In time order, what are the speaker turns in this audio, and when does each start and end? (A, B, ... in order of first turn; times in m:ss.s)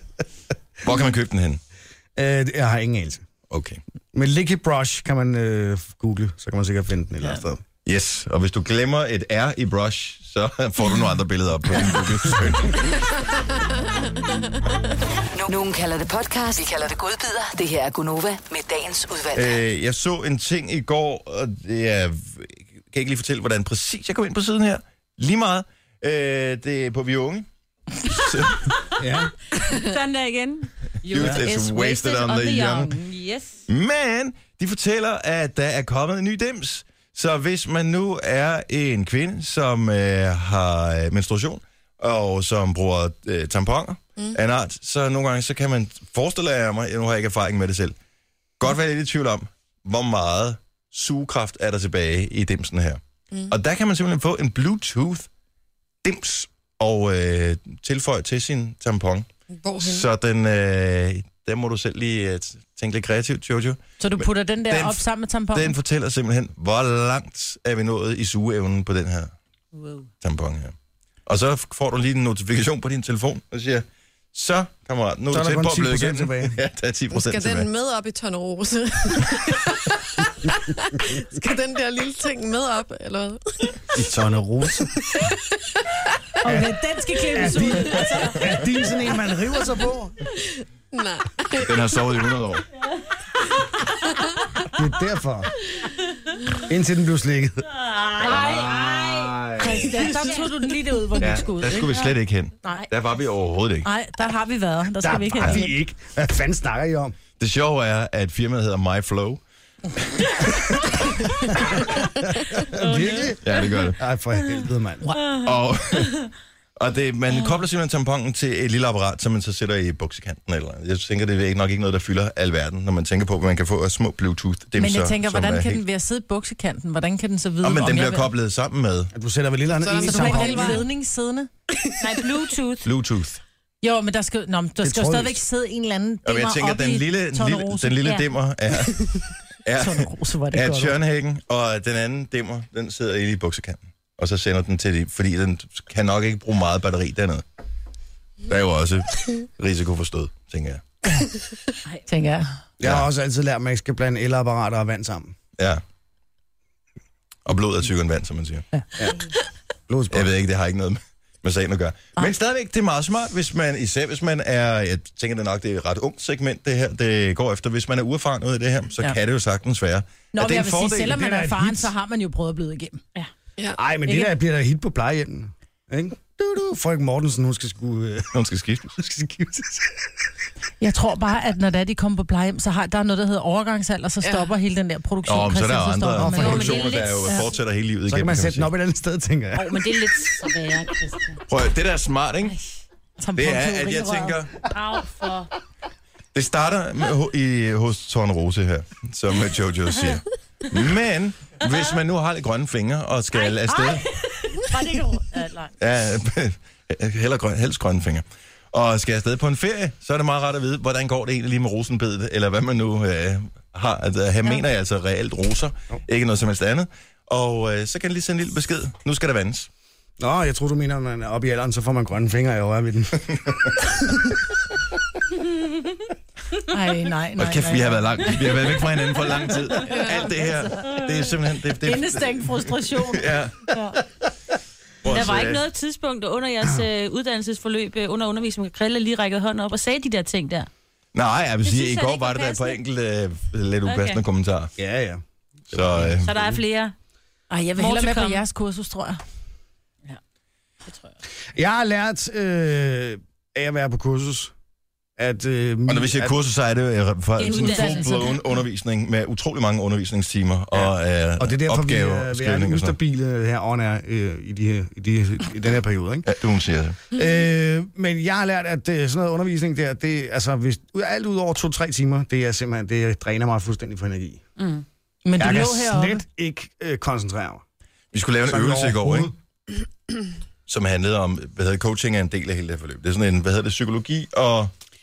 0:00.8-0:01.6 A
0:02.2-0:03.2 B
0:03.5-0:03.8 A
0:04.1-0:07.6 B
0:07.8-0:13.0 A
0:15.4-0:19.6 C
0:19.3-0:27.5 A
0:28.0-0:28.7 A
0:29.0-0:29.3 B
0:29.7-0:33.6 D
0:31.1-0:32.9 A
0:31.1-0:31.4 B
0:33.7-0:48.0 A
0:48.6-0:55.3 A
0:56.0-0:59.3 A
0:59.6-1:00.1 E
0:59.8-1:09.3 A
1:04.0-1:05.8 F
1:09.7-1:10.1 D
1:10.2-1:10.7 A
1:11.2-1:17.7 A
1:15.3-1:16.6 B
1:17.1-1:23.9 E
1:24.0-1:24.9 B
1:24.0-1:24.3 A
1:25.0-1:26.0 E
1:26.4-1:28.6 F
1:27.2-1:30.1 B
1:30.4-1:32.2 E
1:31.6-1:32.6 A
1:34.7-1:35.5 B
1:36.6-1:37.7 B
1:37.9-1:40.4 D
1:38.2-1:39.9 A
1:39.5-1:41.9 F
1:41.2-1:43.9 A
1:43.8-1:45.8 F
1:45.0-1:47.2 B
1:47.4-1:49.4 A
1:50.0-1:51.1 A
1:52.6-1:55.2 B
1:52.8-1:53.6 D
1:53.4-1:54.0 A
1:55.2-1:55.5 D
1:55.3-1:56.2 A
1:56.8-2:05.8 A
2:04.8-2:08.3 F
2:07.6-2:09.1 A
2:09.1-2:10.8 B
2:09.8-2:10.8 E
2:10.0-2:11.5 F
2:12.0-2:12.9 D
2:12.8-2:13.4 A
2:13.8-2:18.1 F
2:14.8-2:15.4 B
2:16.2-2:27.4 A
2:19.8-2:21.0 F
2:28.5-2:30.8 A
2:32.1-2:32.5 F
2:32.8-2:35.4 B
2:32.8-2:33.1 A
2:37.4-2:38.6 A
2:39.9-2:40.3 B
2:40.1-2:51.2 A
2:50.3-2:53.3 F
2:51.1-2:51.9 B
2:53.8-2:58.4 B
2:54.0-2:54.3 F
2:58.3-2:59.0 A
2:59.0-3:00.0 B
3:00.8-3:07.4 F
3:04.2-3:04.5 E
3:05.2-3:08.7 A
3:06.2-3:06.7 B
3:06.4-3:07.4 D
3:08.1-3:09.8 B
3:09.5-3:11.4 D
3:11.5-3:12.5 A
3:13.2-3:14.4 F
3:13.4-3:14.6 A
3:14.7-3:15.5 D
3:16.3-3:24.0 A
3:23.7-3:25.5 F
3:24.7-3:25.6 D
3:25.8-3:39.7 A
3:40.2-3:44.0 B
3:46.7-3:48.2 F
3:47.4-3:53.7 A
3:49.8-3:51.0 D
3:51.8-3:53.3 F
3:55.0-3:55.6 A
3:55.0-4:00.7 D
4:01.1-4:04.7 A
4:01.6-4:02.8 D
4:03.8-4:04.2 D
4:04.8-4:06.6 B
4:05.7-4:06.3 A
4:06.2-4:06.9 D
4:07.5-4:09.2 F
4:07.8-4:08.4 D
4:11.5-4:14.5 B
4:15.2-4:16.4 B
4:15.9-4:23.0 A
4:17.4-4:18.4 D
4:17.4-4:18.4 F
4:20.7-4:26.3 B
4:26.2-4:27.0 A
4:27.1-4:34.4 B
4:34.6-4:34.8 D
4:35.2-4:36.2 F
4:35.4-4:37.6 B
4:38.1-4:39.3 A
4:38.5-4:39.3 B
4:40.7-4:44.7 A